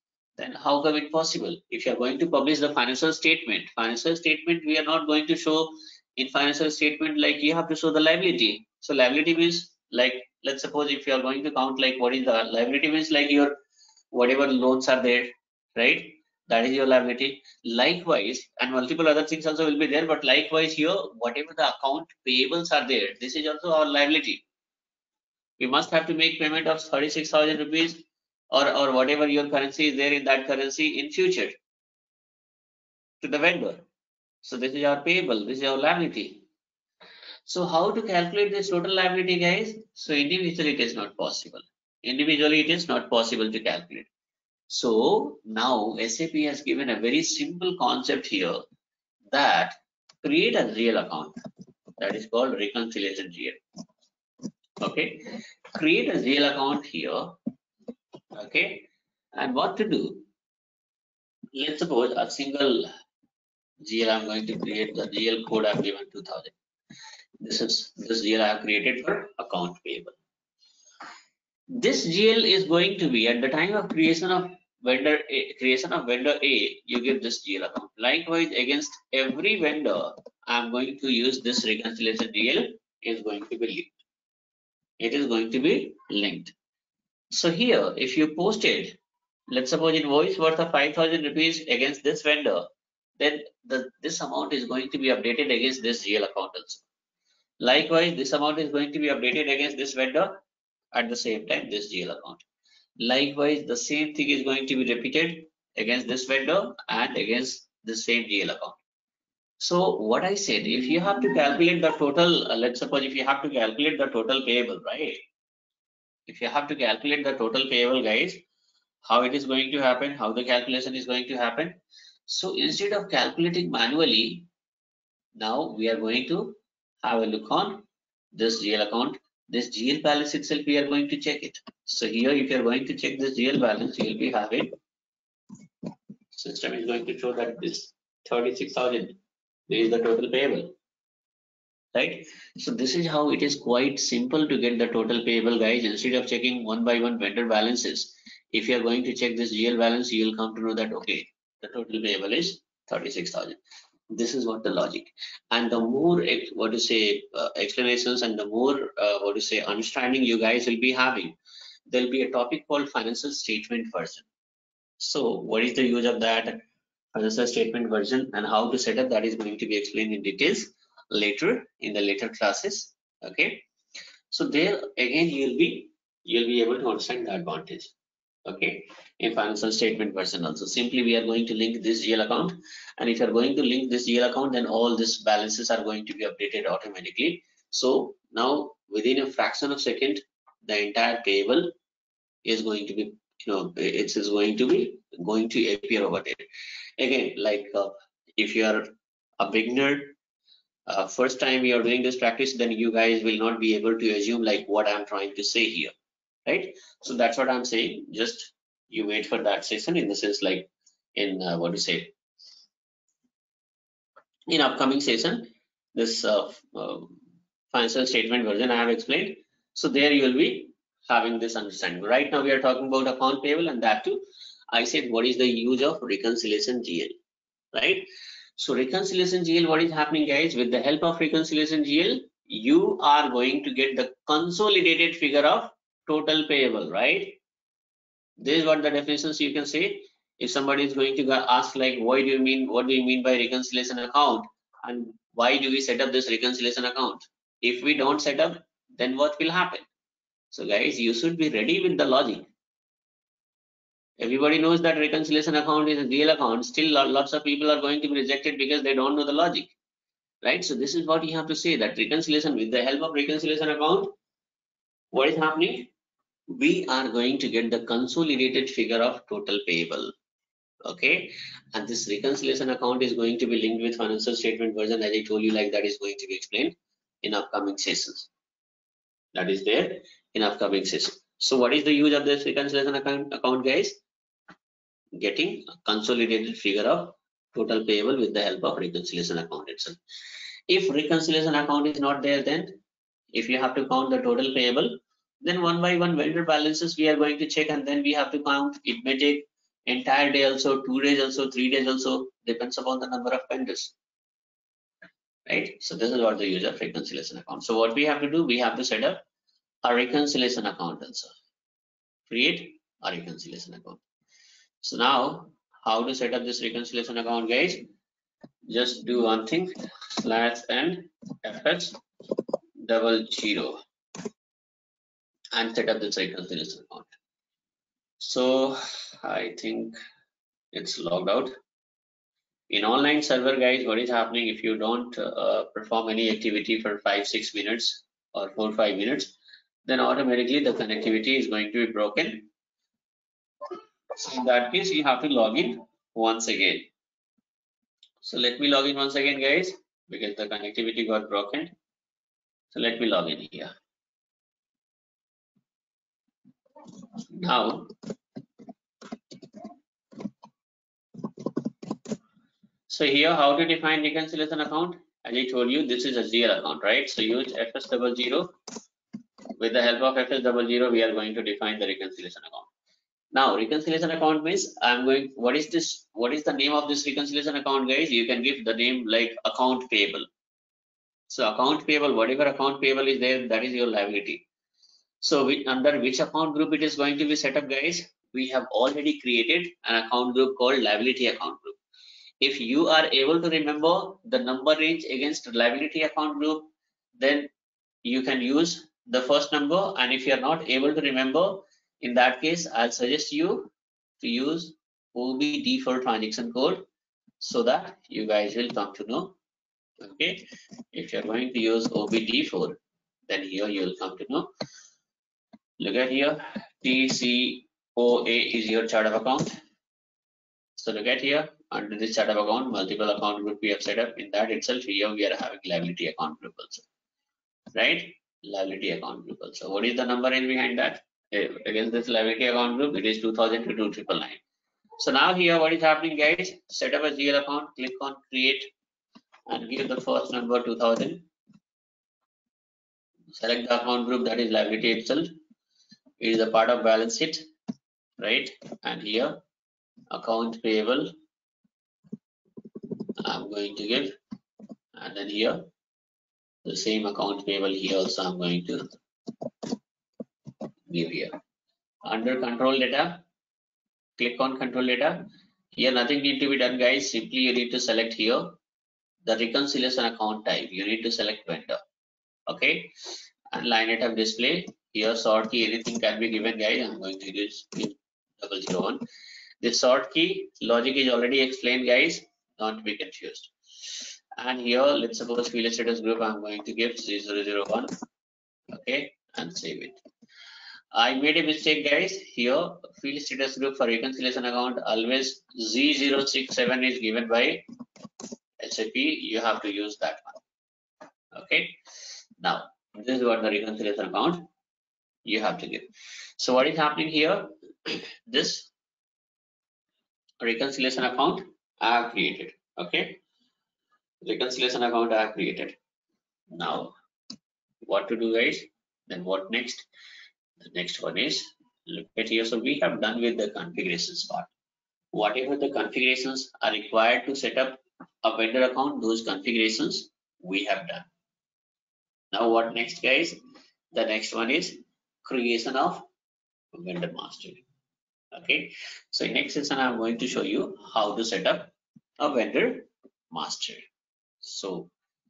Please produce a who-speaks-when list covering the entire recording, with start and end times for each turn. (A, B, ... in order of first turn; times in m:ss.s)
0:00.4-0:13.6 A
0:14.1-0:24.4 A
0:25.6-0:31.6 A
0:33.2-0:33.8 A
0:34.4-0:36.4 A
0:37.5-0:44.1 A
0:44.7-0:48.6 A
0:49.3-0:51.4 A
0:52.0-0:53.6 A
0:54.8-0:57.4 A
0:58.3-1:00.3 A
1:01.6-1:02.9 A
1:03.8-1:06.5 A
1:07.4-1:10.2 A
1:11.8-1:24.0 A
1:25.0-1:26.5 A
1:27.3-1:29.0 A
1:29.5-1:32.7 A
1:33.2-1:36.8 A
1:37.6-1:40.4 A
1:40.9-1:42.4 A
1:43.0-1:48.8 A
1:49.6-1:55.2 A
1:56.3-1:58.4 A
1:59.0-2:04.5 A
2:05.4-2:14.8 A
2:16.3-2:19.2 A
2:19.7-2:20.7 A
2:21.9-2:33.6 A
2:34.1-2:41.4 A
2:41.9-2:44.3 A
2:45.0-2:46.6 A
2:47.1-2:53.6 A
2:54.3-2:57.9 A
2:58.5-3:11.7 A
3:12.4-3:16.4 A
3:17.0-3:20.2 A
3:20.9-3:25.9 A
3:26.5-3:32.1 A
3:34.5-3:37.2 A
3:37.7-3:47.2 A
3:47.7-3:48.1 A
3:48.6-3:57.4 A
3:58.4-4:09.9 A
4:10.5-4:12.5 A
4:14.2-4:19.7 A
4:20.4-4:24.1 A
4:25.1-4:25.9 A
4:26.5-4:30.1 A
4:30.8-4:38.3 A
4:39.3-4:44.0 A
4:45.2-4:50.0 A
4:50.7-4:52.8 A
4:53.3-5:04.0 A
5:05.5-5:09.2 A
5:09.8-5:11.3 A
5:12.3-5:14.0 A
5:14.8-5:17.9 A
5:18.7-5:22.0 A
5:22.8-5:23.8 A
5:25.5-5:27.1 A
5:28.2-5:30.0 A
5:30.7-5:31.6 A
5:32.7-5:39.3 A
5:39.9-5:42.5 A
5:44.2-5:46.9 A
5:48.2-5:51.7 A
5:52.7-5:53.7 A
5:57.3-5:57.9 A
6:02.9-6:08.5 A
6:09.6-6:12.7 A
6:13.3-6:20.3 A
6:21.3-6:24.4 A
6:25.2-6:31.8 A
6:32.4-6:37.5 A
6:38.0-6:46.9 A
6:47.4-6:49.4 A
6:50.0-6:54.5 A
6:55.8-6:59.5 A
7:00.8-7:06.9 A
7:07.8-7:14.4 A
7:15.0-7:18.7 A
7:19.5-7:21.3 A
7:23.4-7:25.3 A
7:26.2-7:27.5 A
7:28.2-7:29.4 A
7:30.1-7:31.1 A
7:33.2-7:34.2 A
7:35.0-7:35.7 A
7:36.6-7:38.9 A
7:40.9-7:41.3 A
7:42.1-7:43.2 A
7:44.2-7:48.6 A
7:49.2-7:51.8 A
7:52.5-7:52.9 A
7:53.5-7:59.0 A
7:59.6-8:07.9 A
8:08.7-8:10.0 A
8:10.9-8:17.6 A
8:18.6-8:20.4 A
8:21.3-8:21.8 A
8:22.4-8:24.4 A
8:25.3-8:28.7 A
8:30.4-8:33.2 A
8:34.2-8:35.8 A
8:36.5-8:36.9 A
8:37.8-8:39.9 A
8:40.6-8:44.5 A
8:45.1-8:51.1 A
8:52.3-8:53.4 A
8:53.9-8:56.1 A
8:56.7-8:57.6 A
8:58.3-9:03.9 A
9:04.4-9:04.9 A